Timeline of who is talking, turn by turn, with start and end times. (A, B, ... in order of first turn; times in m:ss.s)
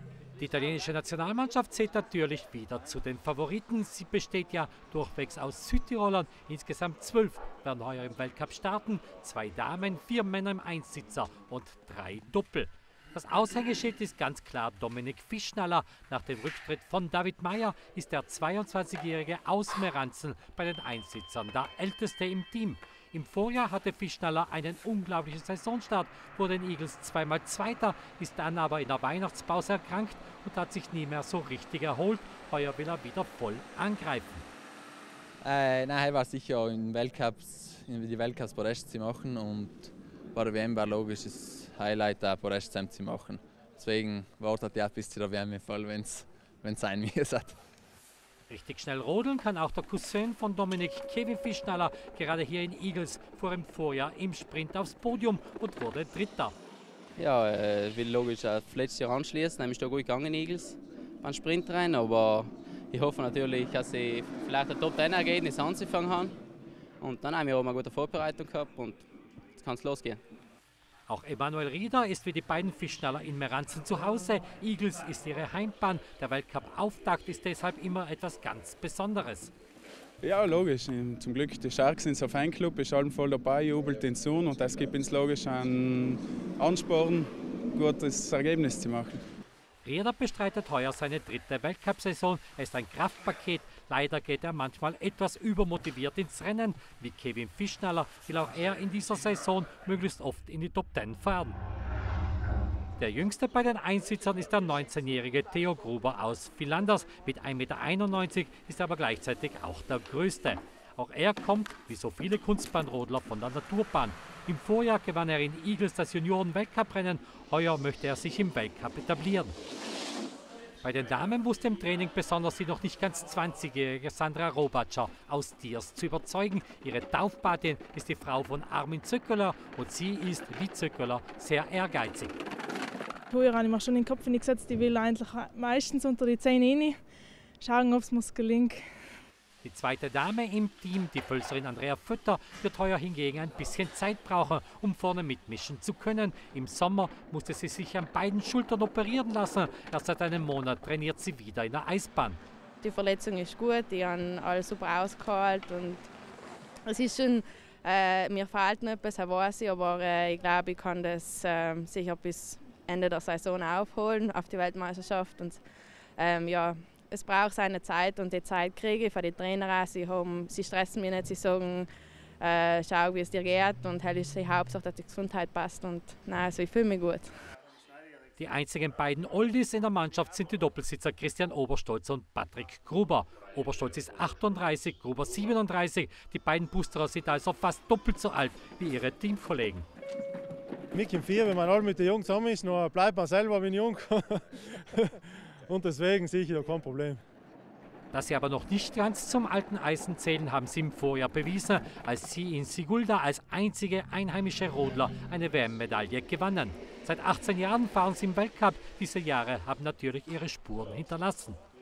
0:00.4-0:34.5 A
0:35.4-0:47.6 B
0:48.5-0:56.6 A
0:57.2-1:06.4 C
1:07.0-1:10.2 C
1:11.1-1:19.5 A
1:20.2-1:29.2 D
1:29.8-1:41.6 A
1:43.0-1:59.6 A
2:00.8-2:12.3 A
2:13.3-2:17.0 E
2:17.6-2:18.9 E
2:19.6-2:32.4 A
2:32.8-2:36.0 F
2:36.9-2:45.6 F
2:46.2-2:51.9 F
2:52.4-2:57.3 F
2:58.4-3:09.9 A
3:10.9-3:17.2 G
3:18.1-3:31.6 A